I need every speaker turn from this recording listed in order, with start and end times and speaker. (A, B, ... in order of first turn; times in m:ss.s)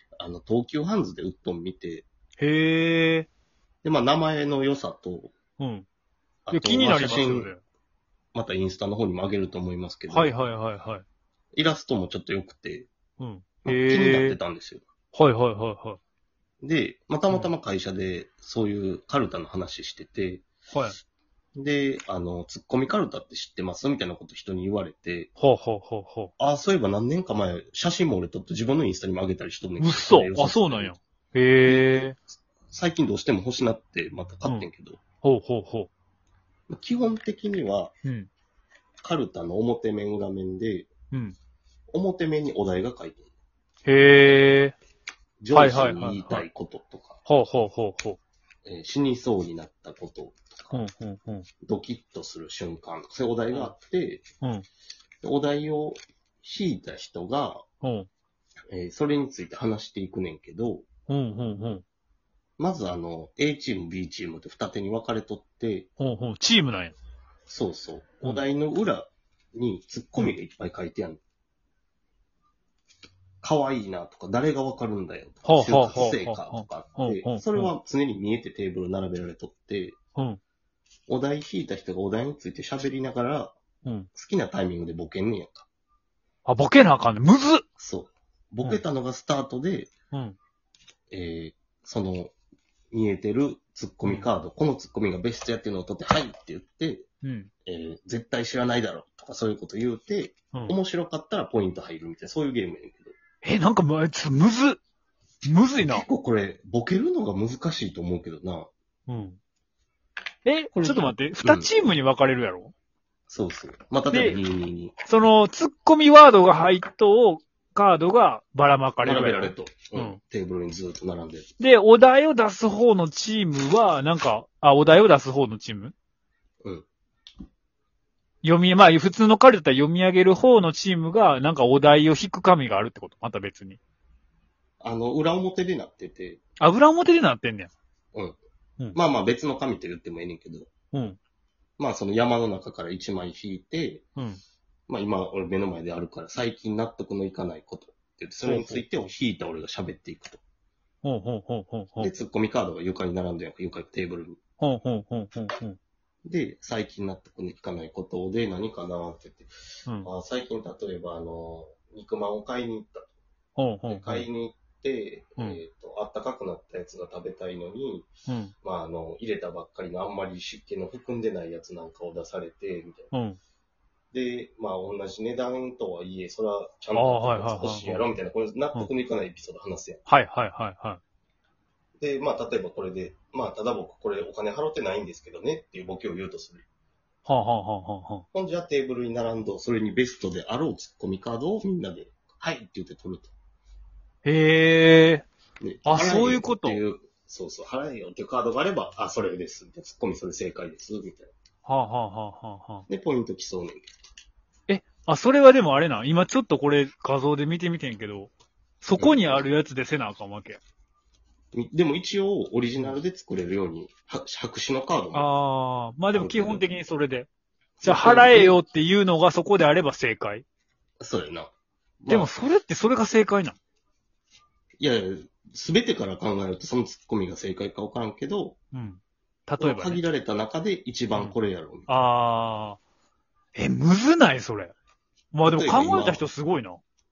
0:00.2-0:02.0 A
0:02.4-0:03.3 B
0:03.8-0:05.3 A
0:05.6-0:05.9 B
0:06.4-0:07.5 A
0:06.5-0:07.6 B
0:08.3-0:10.3 A
0:10.1-0:11.0 B
0:11.6-0:12.9 A
0:13.2-0:14.4 B
0:13.6-0:14.8 A
0:15.1-0:16.0 B
0:16.6-0:20.4 A
0:20.7-0:21.0 B
0:21.6-0:25.3 A
0:25.4-0:26.3 B
0:26.4-0:30.9 A
0:29.8-0:32.2 B
0:31.6-0:35.0 A
0:35.2-0:35.9 B
0:36.7-0:37.9 A
0:39.0-0:40.9 A
0:41.9-0:43.3 A
0:43.9-0:44.8 B
0:45.4-0:47.2 A
0:45.5-0:46.4 B
0:47.3-0:48.2 B
0:48.6-0:50.8 A
0:50.7-0:51.5 B
0:51.6-0:54.2 A
0:55.2-0:57.6 A
0:57.8-0:58.1 B
0:58.7-1:00.9 A
1:01.1-1:01.8 B
1:02.6-1:05.9 A
1:06.0-1:07.0 B
1:07.5-1:11.2 A
1:13.4-1:20.0 A
1:15.4-1:17.7 B
1:21.1-1:23.6 A
1:24.1-1:25.6 A
1:26.4-1:27.6 B
1:27.8-1:29.9 A
1:30.1-1:30.4 B
1:31.1-1:32.3 A
1:32.9-1:37.1 A
1:37.2-1:37.5 B
1:37.6-1:43.1 A
1:43.4-1:44.8 B
1:45.4-1:46.1 B
1:45.8-1:48.7 A
1:49.1-1:49.4 B
1:50.4-1:52.7 B
1:50.8-1:51.9 A
1:53.3-1:54.9 A
1:54.1-1:54.4 B
1:55.1-2:00.2 B
1:59.0-2:01.5 A
2:01.6-2:05.9 B
2:08.4-2:13.8 B
2:14.8-2:16.4 A
2:16.6-2:17.7 B
2:19.0-2:20.7 A
2:20.9-2:21.2 B
2:21.8-2:24.0 A
2:24.9-2:30.4 A
2:28.4-2:28.9 B
2:31.0-2:32.1 B
2:32.0-2:34.4 A
2:34.6-2:35.8 B
2:36.2-2:43.1 A
2:43.6-2:44.3 B
2:43.9-2:48.1 A
2:48.3-2:48.5 B
2:48.6-2:53.1 A
2:53.1-2:53.4 B
2:54.1-3:00.0 A
2:56.9-2:58.1 B
3:00.1-3:01.0 B
3:02.0-3:06.6 A
3:07.2-3:08.2 B
3:08.3-3:13.3 A
3:14.2-3:15.2 B
3:15.6-3:21.3 A
3:15.8-3:16.8 B
3:21.6-3:22.9 B
3:22.9-3:23.9 A
3:24.7-3:30.6 B
3:29.0-3:29.4 A
3:31.5-3:35.3 A
3:35.1-3:37.3 B
3:36.1-3:36.7 A
3:37.8-3:38.6 A
3:37.8-3:40.4 B
3:41.0-3:41.5 A
3:42.0-3:42.3 A
3:42.1-3:43.6 B
3:44.8-3:48.6 A
3:48.7-3:50.0 B
3:49.6-3:51.9 A
3:51.9-3:52.8 B
3:53.5-3:54.8 B
3:55.3-3:56.8 B
3:55.4-3:56.3 A